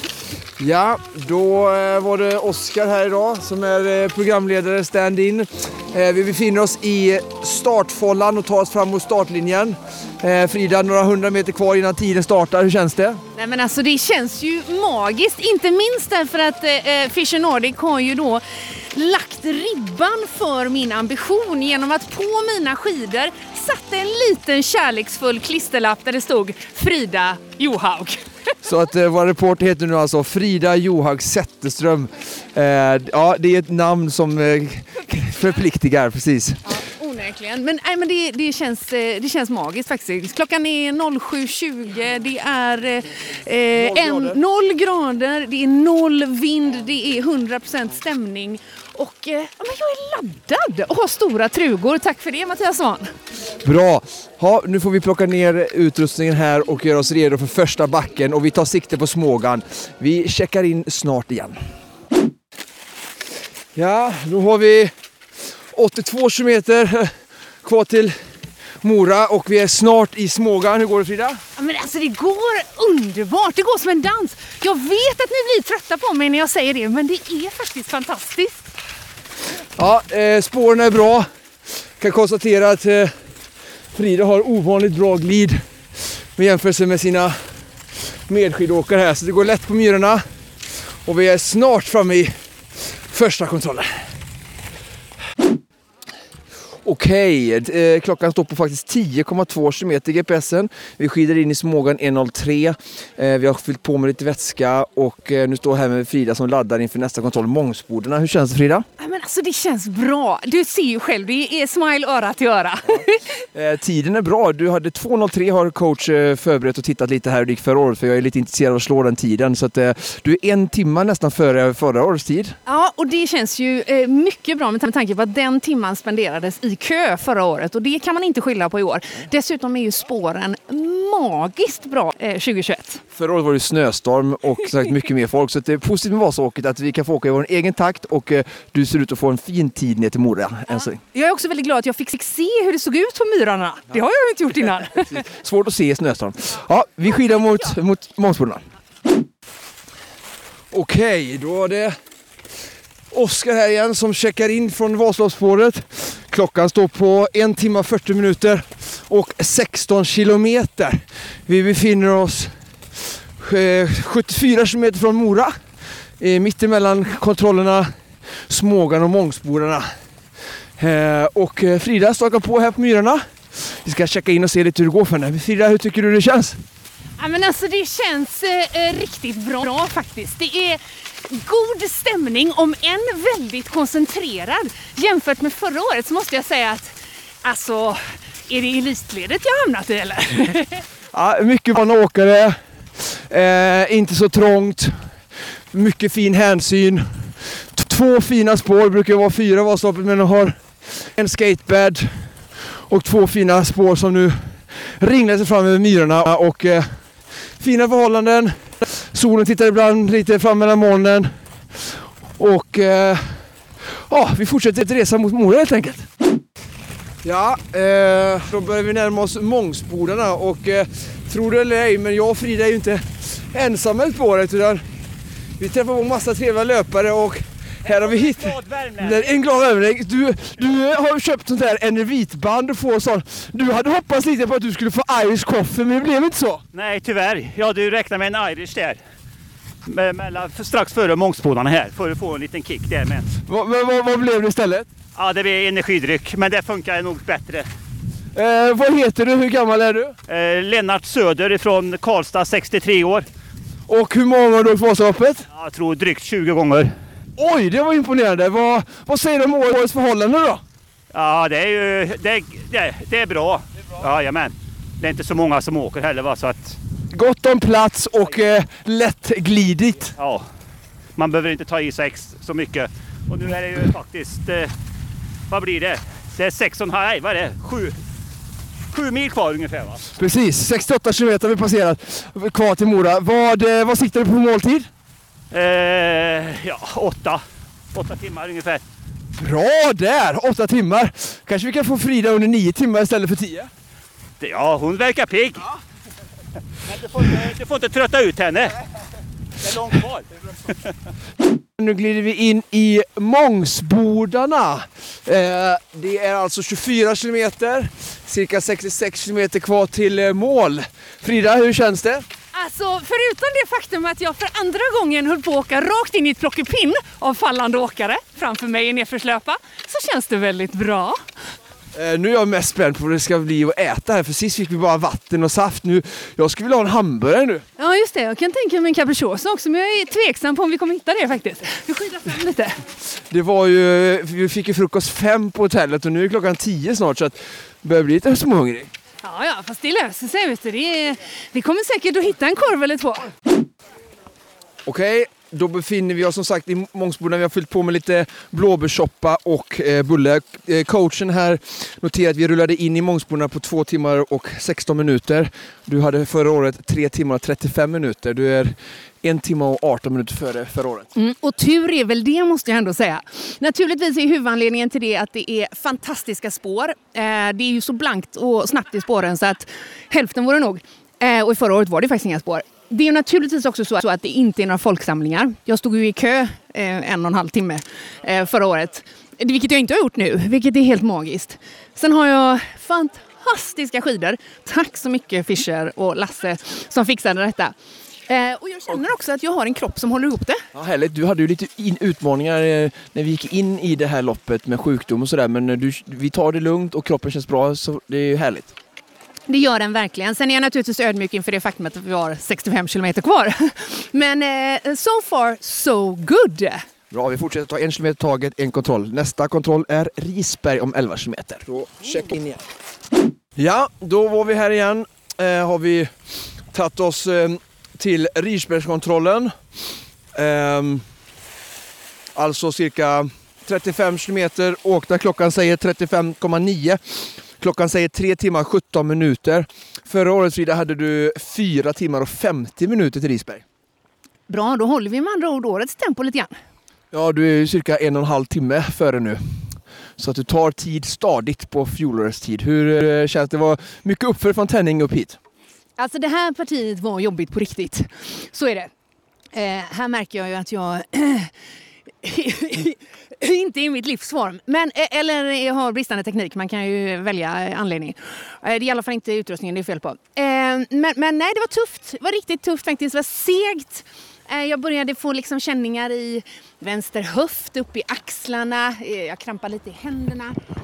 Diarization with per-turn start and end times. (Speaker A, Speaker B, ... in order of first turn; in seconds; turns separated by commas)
Speaker A: 0.6-13.2, Speaker B: 13.3-28.5, Speaker A: 28.6-36.6, Speaker B: 36.6-53.1, Speaker A: 43.7-44.4, Speaker A: 53.6-61.6, Speaker A: 63.7-64.9, Speaker A: 65.7-68.2, Speaker A: 68.8-71.4, Speaker B: 71.5-78.7, Speaker A: 79.8-83.2, Speaker A: 83.9-87.6, Speaker A: 88.3-94.1, Speaker A: 96.8-108.8, Speaker B: 109.0-113.4, Speaker A: 113.5-122.5, Speaker B: 122.7-133.0, Speaker A: 133.1-141.0, Speaker B: 140.7-145.2, Speaker A: 145.1-148.6, Speaker A: 150.7-152.0, Speaker A: 153.1-169.9, Speaker A: 170.8-176.6, Speaker B: 177.2-190.8, Speaker A: 191.1-216.1, Speaker A: 217.2-224.9, Speaker A: 225.6-236.6, Speaker C: 227.8-229.3, Speaker C: 236.7-239.0, Speaker C: 239.8-243.4, Speaker A: 243.4-244.9, Speaker C: 245.1-247.7, Speaker A: 248.3-250.2, Speaker C: 250.3-253.2, Speaker A: 253.9-255.4, Speaker C: 255.5-256.9, Speaker A: 257.4-260.6, Speaker C: 261.1-266.8, Speaker A: 267.1-270.1, Speaker C: 270.2-270.5, Speaker C: 271.1-274.7, Speaker C: 275.5-278.0, Speaker C: 278.9-280.0, Speaker A: 280.1-284.9, Speaker C: 285.5-288.8, Speaker A: 289.4-293.7, Speaker C: 294.4-295.7, Speaker C: 296.9-298.8, Speaker C: 299.6-300.9, Speaker A: 301.8-312.2, Speaker B: 312.5-321.2, Speaker A: 321.9-327.6, Speaker B: 327.8-332.8, Speaker A: 333.1-338.9, Speaker B: 339.2-343.3, Speaker A: 344.8-361.1, Speaker B: 361.1-387.7, Speaker B: 388.2-390.6, Speaker A: 390.7-398.7, Speaker B: 399.5-406.9, Speaker A: 407.1-412.6, Speaker A: 413.6-419.8, Speaker A: 420.3-421.0, Speaker A: 422.3-433.6, Speaker B: 434.5-436.5, Speaker A: 437.1-445.4, Speaker B: 446.0-448.9, Speaker B: 449.5-451.5, Speaker B: 452.2-470.6